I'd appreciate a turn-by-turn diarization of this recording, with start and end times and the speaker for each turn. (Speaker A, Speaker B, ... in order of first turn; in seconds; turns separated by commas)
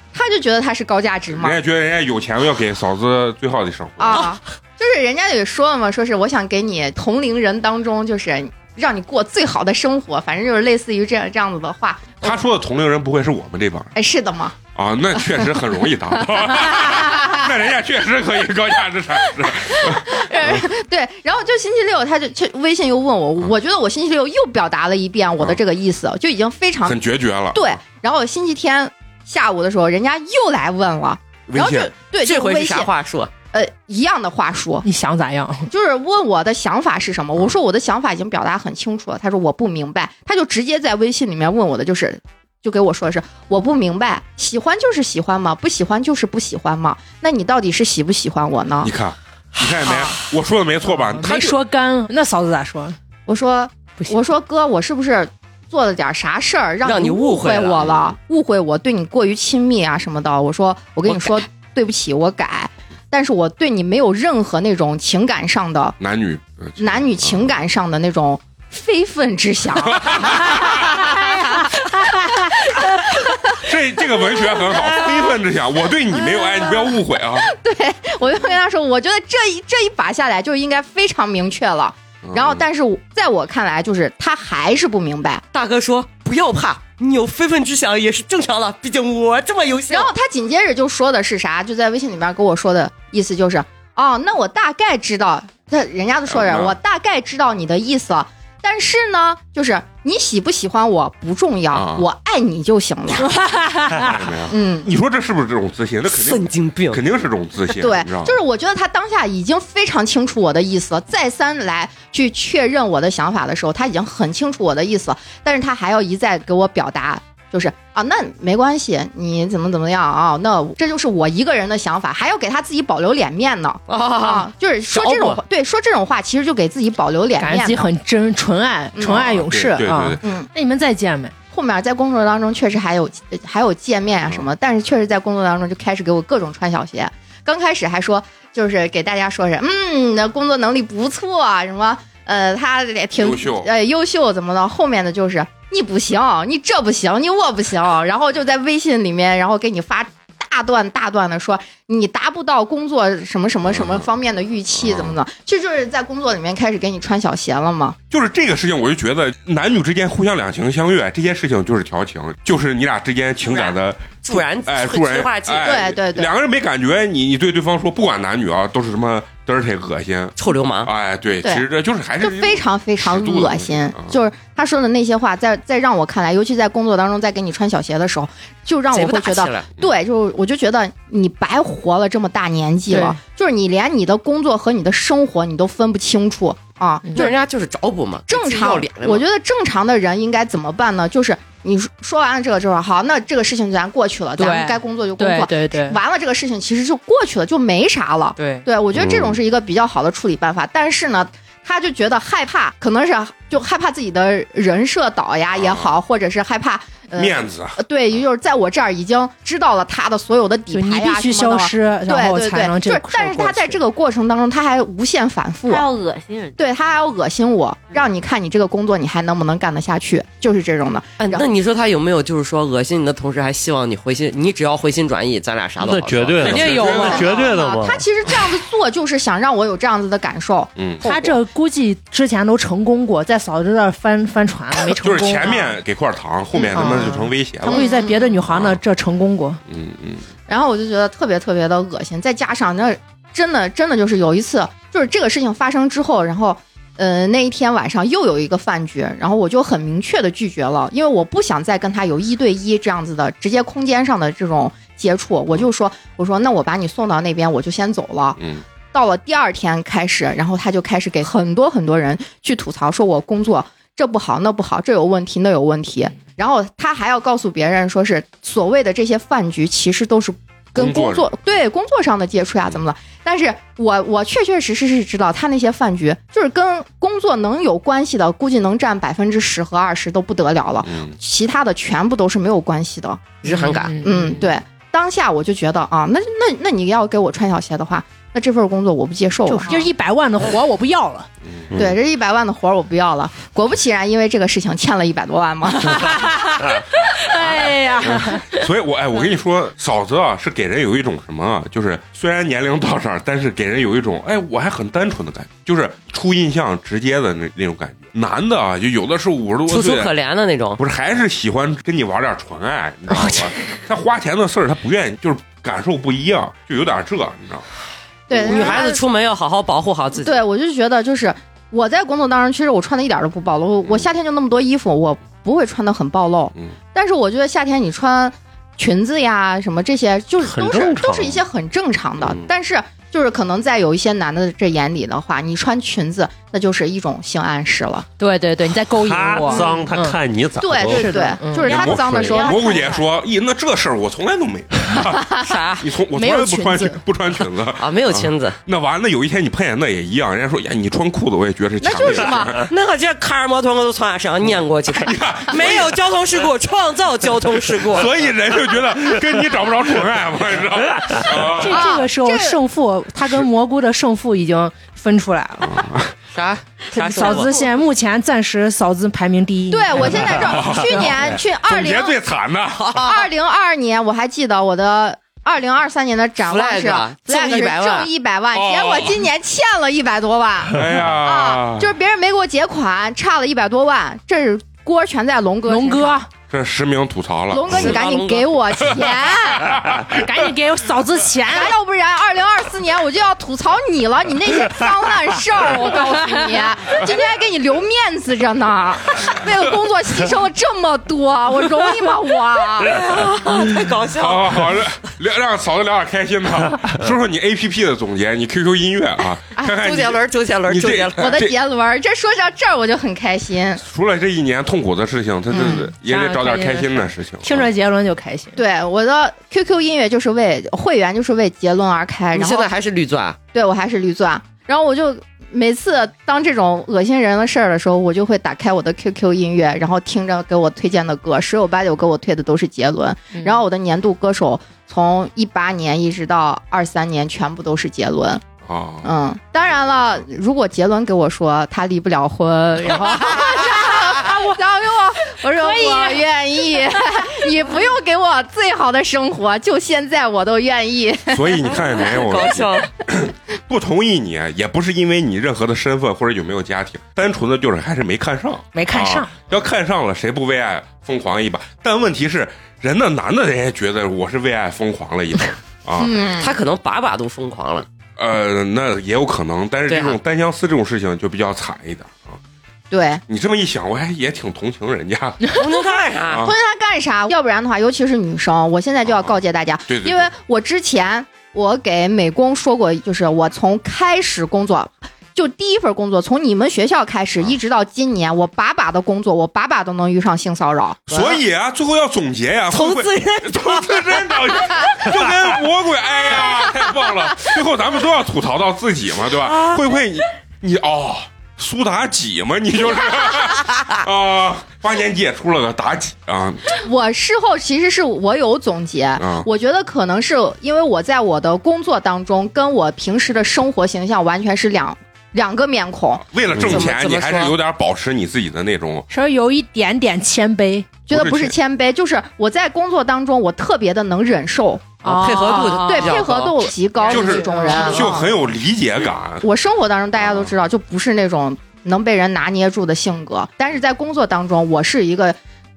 Speaker A: 0.1-1.6, Speaker B: 1.3-4.3, Speaker A: 4.0-12.4, Speaker B: 12.2-13.9, Speaker A: 13.9-14.6, Speaker B: 14.8-20.6, Speaker A: 16.5-17.5, Speaker A: 19.3-27.0, Speaker B: 26.8-27.7, Speaker A: 27.5-32.9, Speaker B: 31.5-31.9, Speaker C: 32.2-33.3, Speaker A: 33.5-34.9, Speaker D: 34.8-35.7, Speaker A: 35.7-48.9, Speaker B: 48.8-51.6, Speaker D: 49.8-50.3, Speaker D: 50.9-53.0, Speaker A: 53.3-66.0, Speaker C: 56.8-57.8, Speaker B: 57.8-58.1, Speaker C: 61.1-61.3, Speaker B: 66.0-67.5, Speaker A: 66.8-75.3, Speaker B: 69.8-70.9, Speaker B: 73.6-77.5, Speaker A: 76.2-85.4, Speaker B: 82.2-82.6, Speaker C: 85.5-90.1, Speaker A: 89.9-103.5, Speaker B: 96.3-96.8, Speaker B: 101.7-102.1, Speaker D: 103.4-104.1, Speaker B: 104.0-108.4, Speaker A: 104.5-104.9, Speaker C: 106.1-107.0, Speaker A: 107.7-127.9, Speaker C: 123.9-125.4, Speaker D: 127.4-131.3, Speaker A: 129.0-129.2, Speaker B: 129.0-130.2, Speaker A: 130.2-130.5, Speaker A: 131.5-158.0, Speaker B: 143.2-143.7, Speaker B: 153.7-154.1, Speaker B: 154.8-155.2, Speaker B: 158.1-174.2, Speaker C: 163.4-165.8, Speaker A: 165.6-166.3, Speaker C: 170.4-170.9, Speaker A: 172.2-187.4, Speaker C: 178.9-179.7, Speaker D: 182.9-183.2, Speaker C: 187.2-189.2, Speaker A: 188.3-215.9, Speaker D: 194.4-196.0, Speaker B: 205.5-206.0, Speaker B: 207.2-207.8, Speaker D: 210.7-213.8, Speaker E: 215.7-216.6, Speaker A: 216.6-221.5, Speaker C: 221.2-226.7, Speaker F: 225.8-228.1, Speaker B: 226.4-227.4, Speaker D: 226.5-227.2, Speaker A: 226.6-231.4, Speaker B: 230.8-231.1, Speaker D: 231.0-235.7, Speaker B: 234.9-237.9, Speaker A: 236.5-237.1, Speaker D: 236.8-239.6, Speaker A: 237.6-238.4, Speaker B: 238.5-238.8, Speaker B: 239.7-240.3, Speaker A: 240.5-258.4, Speaker B: 258.4-258.6, Speaker A: 258.9-283.4, Speaker B: 270.8-271.4, Speaker B: 280.8-281.2, Speaker C: 283.4-284.0, Speaker D: 283.5-284.3, Speaker A: 284.0-289.9, Speaker D: 289.5-291.3, Speaker B: 291.4-291.9, Speaker A: 291.8-296.7, Speaker D: 295.9-298.4, Speaker B: 298.0-310.1, Speaker C: 309.7-310.8, Speaker B: 310.8-317.6, Speaker A: 318.3-319.0, Speaker C: 318.3-320.4, Speaker A: 320.2-338.1, Speaker F: 330.4-331.4, Speaker D: 338.2-340.2, Speaker F: 338.9-341.3, Speaker A: 339.5-339.9, Speaker A: 340.6-342.9, Speaker D: 340.9-341.7, Speaker E: 341.6-343.1, Speaker B: 341.7-348.0, Speaker D: 346.1-347.0, Speaker C: 347.8-348.6, Speaker B: 348.6-352.7, Speaker A: 351.8-352.6, Speaker C: 352.7-358.1, Speaker B: 354.9-356.0, Speaker B: 357.8-362.0, Speaker D: 361.6-365.9, Speaker A: 361.6-362.6, Speaker B: 365.6-366.0, Speaker C: 366.3-367.5, Speaker D: 366.9-370.0, Speaker A: 369.7-372.2, Speaker B: 370.2-373.0, Speaker C: 372.8-373.3, Speaker A: 373.0-386.2, Speaker C: 376.4-378.1, Speaker B: 378.5-379.2, Speaker B: 380.7-381.9, Speaker D: 385.7-386.3, Speaker B: 386.5-388.0, Speaker A: 387.5-389.9, Speaker C: 387.7-388.6, Speaker B: 388.9-390.5, Speaker D: 390.2-391.7, Speaker A: 391.5-403.0, Speaker C: 402.8-404.8, Speaker B: 404.1-411.6, Speaker C: 409.6-411.4, Speaker A: 411.2-413.8, Speaker B: 413.8-417.7, Speaker A: 415.5-415.9, Speaker D: 416.0-418.6, Speaker A: 418.6-422.7, Speaker C: 422.3-423.4, Speaker A: 423.5-438.4, Speaker B: 438.6-439.1, Speaker A: 439.0-451.7, Speaker D: 445.4-446.2, Speaker B: 451.3-466.2, Speaker C: 451.7-452.9, Speaker D: 458.7-459.3, Speaker A: 466.0-466.6, Speaker C: 466.4-467.9, Speaker B: 468.2-472.4, Speaker C: 469.9-470.2, Speaker A: 472.9-473.2, Speaker B: 473.3-475.6, Speaker C: 475.6-476.5, Speaker B: 476.3-476.6, Speaker A: 476.4-491.0, Speaker B: 479.1-479.4, Speaker B: 479.9-480.3, Speaker B: 491.1-506.7, Speaker C: 491.1-491.4, Speaker C: 492.7-495.1, Speaker C: 499.4-499.8, Speaker A: 506.7-516.2, Speaker B: 509.2-509.5, Speaker B: 516.3-519.1, Speaker F: 516.6-516.8, Speaker C: 516.6-517.5, Speaker D: 519.1-520.9, Speaker A: 521.1-528.3, Speaker B: 521.1-521.6, Speaker D: 525.0-526.2, Speaker C: 525.0-526.7, Speaker D: 527.1-528.1, Speaker B: 527.1-529.5, Speaker C: 527.7-528.0, Speaker A: 529.4-535.4, Speaker B: 530.2-530.5